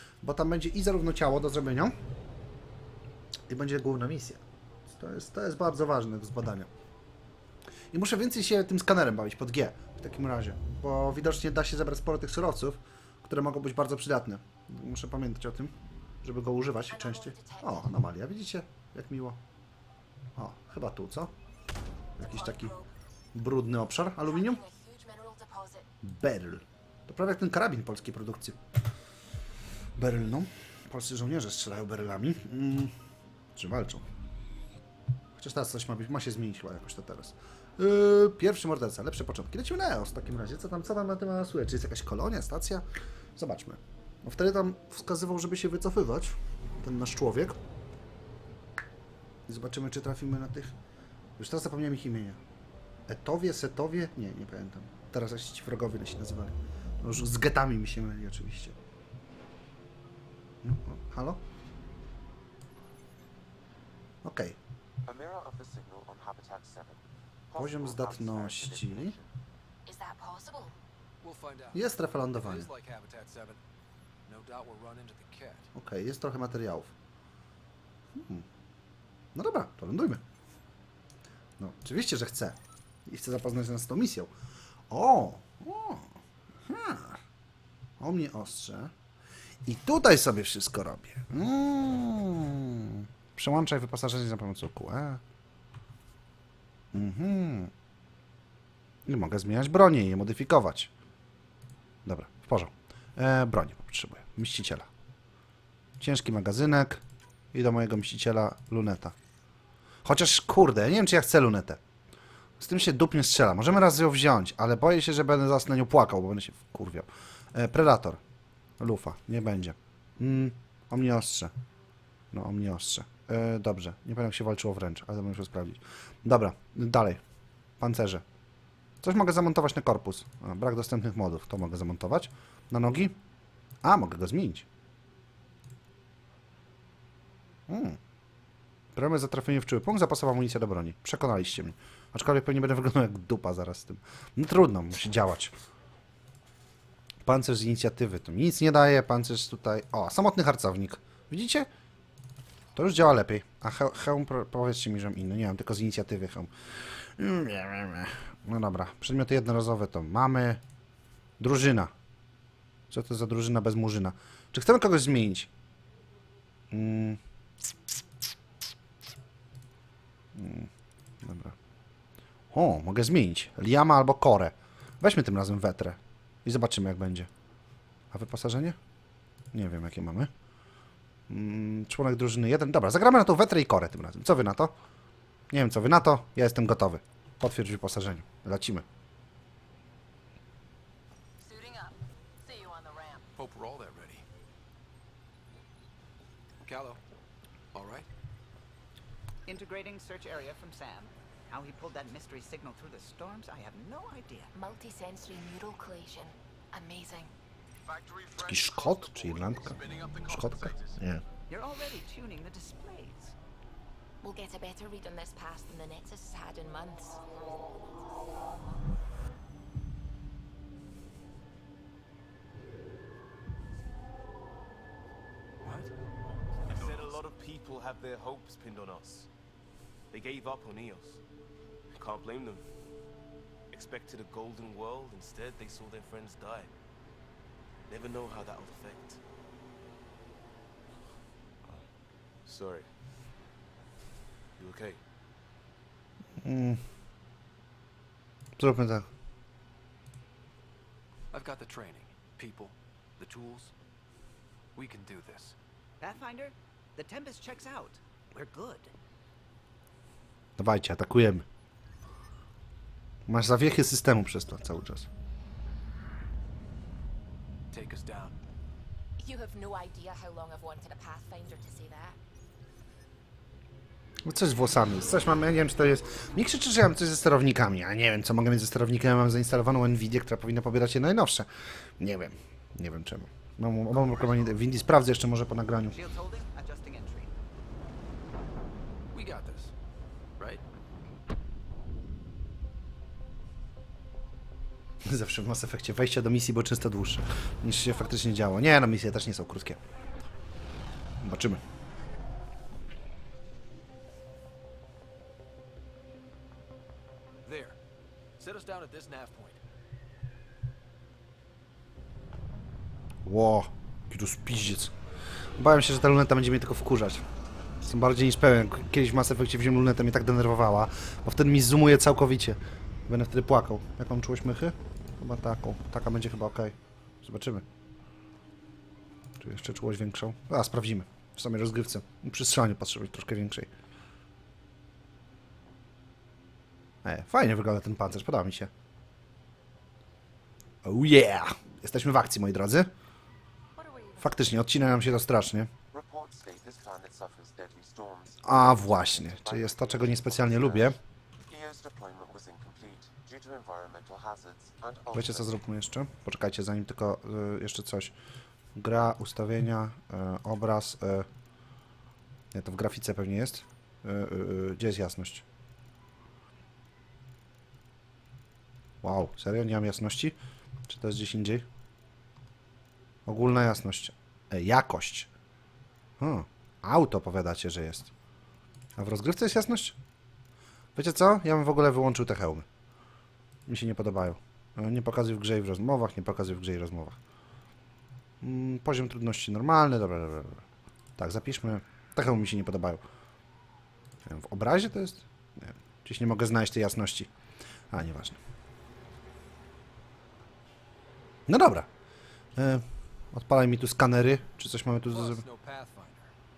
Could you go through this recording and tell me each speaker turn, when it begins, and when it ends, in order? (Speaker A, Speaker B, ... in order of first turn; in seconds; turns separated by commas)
Speaker A: 0.2-1.9, Speaker A: 3.5-6.7, Speaker A: 7.9-19.4, Speaker B: 16.9-17.9, Speaker A: 20.4-21.3, Speaker A: 22.2-22.7, Speaker B: 22.2-22.9, Speaker A: 23.3-24.6, Speaker B: 24.2-25.9, Speaker A: 26.0-28.6, Speaker A: 30.0-32.9, Speaker A: 33.5-34.0, Speaker A: 35.4-42.9, Speaker A: 43.4-47.6, Speaker A: 49.5-50.7, Speaker A: 51.4-52.4, Speaker A: 53.1-58.8, Speaker A: 60.6-61.4, Speaker A: 64.2-64.6, Speaker C: 65.1-69.3, Speaker A: 67.5-69.2, Speaker B: 69.9-70.8, Speaker D: 71.2-73.6, Speaker A: 71.7-72.7, Speaker D: 74.3-75.7, Speaker A: 75.8-76.9, Speaker A: 78.2-78.5, Speaker A: 79.3-80.2, Speaker A: 81.6-84.3, Speaker A: 84.9-86.1, Speaker A: 86.7-87.2, Speaker A: 88.0-88.9, Speaker A: 89.7-95.2, Speaker A: 96.9-97.7, Speaker A: 99.1-100.9, Speaker A: 102.1-104.9, Speaker A: 106.0-107.0, Speaker A: 107.5-109.1, Speaker A: 110.0-111.8, Speaker A: 112.6-118.2, Speaker A: 118.8-121.5, Speaker A: 122.3-127.2, Speaker A: 127.8-128.2, Speaker A: 129.0-133.2, Speaker A: 133.8-134.7, Speaker A: 137.7-138.0, Speaker A: 139.0-145.5, Speaker A: 147.2-151.7, Speaker A: 152.8-160.6, Speaker A: 161.4-161.9, Speaker A: 162.9-165.5, Speaker A: 166.7-167.2, Speaker A: 170.3-170.7, Speaker A: 171.2-171.6, Speaker A: 172.5-177.3, Speaker A: 178.1-178.8, Speaker A: 179.5-180.3, Speaker A: 181.3-184.7, Speaker A: 185.5-188.8, Speaker B: 191.4-193.3, Speaker D: 193.4-194.2, Speaker D: 196.6-197.0, Speaker D: 197.7-198.1, Speaker E: 199.5-204.5, Speaker B: 204.5-207.3, Speaker D: 207.8-211.0, Speaker A: 208.4-211.2, Speaker E: 211.5-213.3, Speaker B: 214.2-217.4, Speaker D: 225.6-225.9, Speaker F: 226.7-229.3, Speaker D: 226.7-227.2, Speaker F: 230.1-231.2, Speaker F: 231.9-232.7, Speaker F: 233.7-236.7, Speaker F: 237.9-239.2, Speaker F: 241.6-241.9, Speaker F: 242.4-242.9, Speaker F: 244.6-245.0, Speaker A: 246.4-246.8, Speaker A: 248.6-249.1, Speaker D: 251.3-253.7, Speaker D: 254.8-255.6, Speaker E: 256.0-258.9, Speaker A: 260.6-261.4, Speaker A: 263.3-265.1, Speaker D: 267.7-268.4, Speaker B: 269.2-272.2, Speaker A: 274.3-281.5, Speaker A: 282.0-286.0, Speaker E: 285.9-287.4, Speaker D: 289.1-289.7, Speaker A: 295.1-299.8, Speaker A: 301.2-301.6, Speaker D: 307.4-307.8, Speaker D: 308.4-309.6, Speaker A: 313.3-314.9, Speaker A: 315.6-317.2, Speaker A: 317.8-327.6, Speaker A: 329.4-333.7, Speaker A: 337.0-338.7, Speaker A: 340.8-342.9, Speaker A: 344.2-345.7, Speaker C: 345.9-355.5, Speaker A: 348.4-351.0, Speaker A: 355.1-358.1, Speaker A: 358.8-361.3, Speaker A: 362.5-365.4, Speaker A: 369.0-370.4, Speaker A: 370.9-371.7, Speaker A: 373.3-375.3, Speaker A: 376.2-378.1, Speaker A: 379.0-380.0, Speaker A: 380.9-382.7, Speaker A: 383.7-387.2, Speaker A: 388.4-390.6, Speaker A: 391.2-393.0, Speaker A: 394.3-397.3, Speaker A: 397.9-398.4, Speaker A: 401.5-401.9, Speaker A: 402.6-405.4, Speaker D: 405.1-406.3